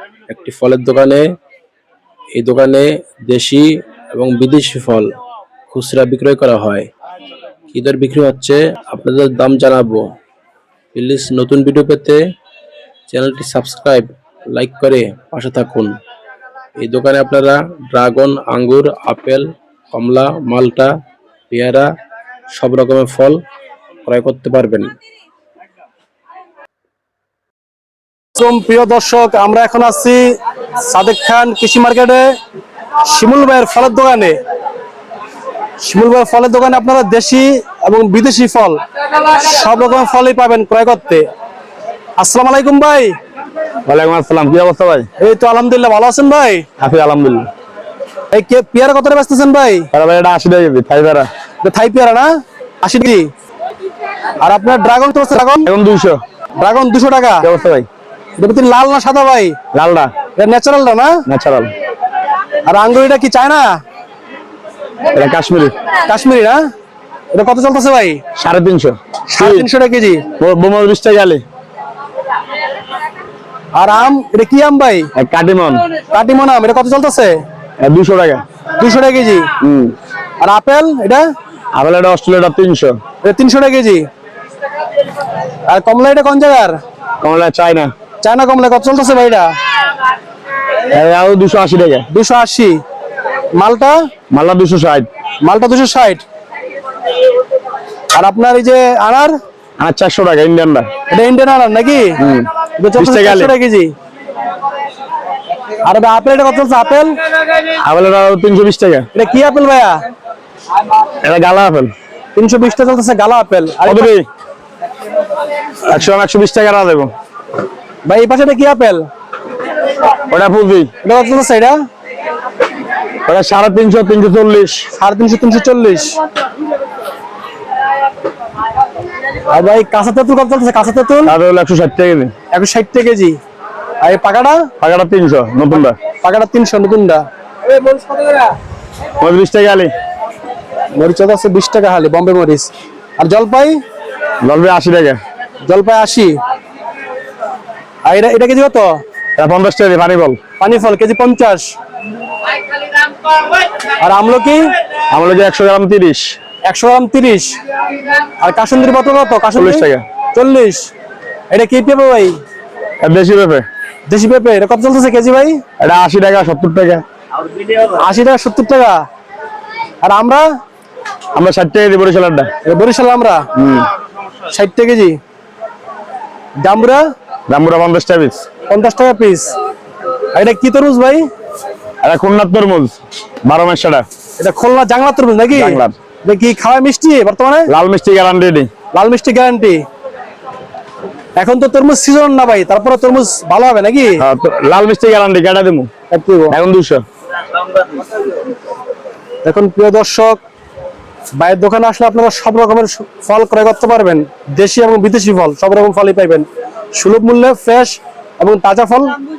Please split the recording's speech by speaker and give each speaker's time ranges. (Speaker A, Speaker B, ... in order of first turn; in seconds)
Speaker A: 0.3-1.2, 2.3-5.1, 5.7-6.9, 7.7-10.2, 10.9-12.2, 13.1-16.0, 16.8-20.9, 21.5-21.9, 22.5-23.4, 24.1-24.9
Speaker B: 28.4-30.2, 30.9-32.2, 33.1-34.4, 35.8-38.8, 39.4-41.2, 42.2-43.1, 45.2-46.6, 48.3-49.9, 51.6-52.3, 52.8-53.2, 54.4-55.7, 56.6-57.5, 58.4-59.5, 60.4-61.2, 62.6-63.7, 66.1-66.5, 67.3-68.2, 69.3-70.2, 73.7-75.1, 76.1-77.3, 78.8-79.5, 80.4-81.2, 83.2-84.0, 85.7-86.8, 88.2-89.5, 92.1-92.8, 93.5-93.9, 95.4-96.2, 98.1-99.3, 101.1-102.2, 102.8-103.9, 105.8-107.1, 109.1-110.0, 112.3-114.1, 118.0-119.0, 121.0-121.8, 125.0-126.2, 129.5-131.3, 132.5-133.3, 134.0-134.7, 136.2-137.2, 140.9-143.7, 145.6-146.3, 148.0-148.9, 150.6-151.6, 154.0-154.7, 156.6-157.6, 158.4-160.9, 161.5-162.3, 164.1-165.6, 167.9-168.9, 170.0-170.4, 172.6-173.4, 174.5-175.2, 176.6-177.0, 178.7-179.5, 180.3-181.2, 184.4-187.7, 188.9-189.8, 191.4-194.2, 196.1-196.6, 199.4-200.4, 201.4-209.2
Speaker C: 43.9-45.1, 46.8-47.5, 49.9-51.3, 55.6-56.2, 57.4-57.9, 59.7-60.1, 61.3-61.7, 65.1-65.8, 68.4-69.7, 70.4-71.4, 75.2-75.9, 77.8-78.4, 79.6-80.0, 81.7-83.0, 87.2-87.9, 90.9-92.1, 94.3-95.1, 99.8-100.9, 102.2-103.5, 107.8-109.1, 111.2-111.9, 113.8-114.2, 115.8-117.1, 120.3-120.9, 123.3-124.8, 131.2-132.3, 134.8-136.0, 139.2-139.9, 144.4-145.2, 149.4-150.4, 155.1-156.3, 159.5-160.0, 163.0-163.7, 165.8-167.0, 171.3-172.5, 173.5-173.9, 177.5-178.4, 182.0-184.1, 185.5-186.0, 187.7-188.7, 194.2-195.9, 196.5-197.0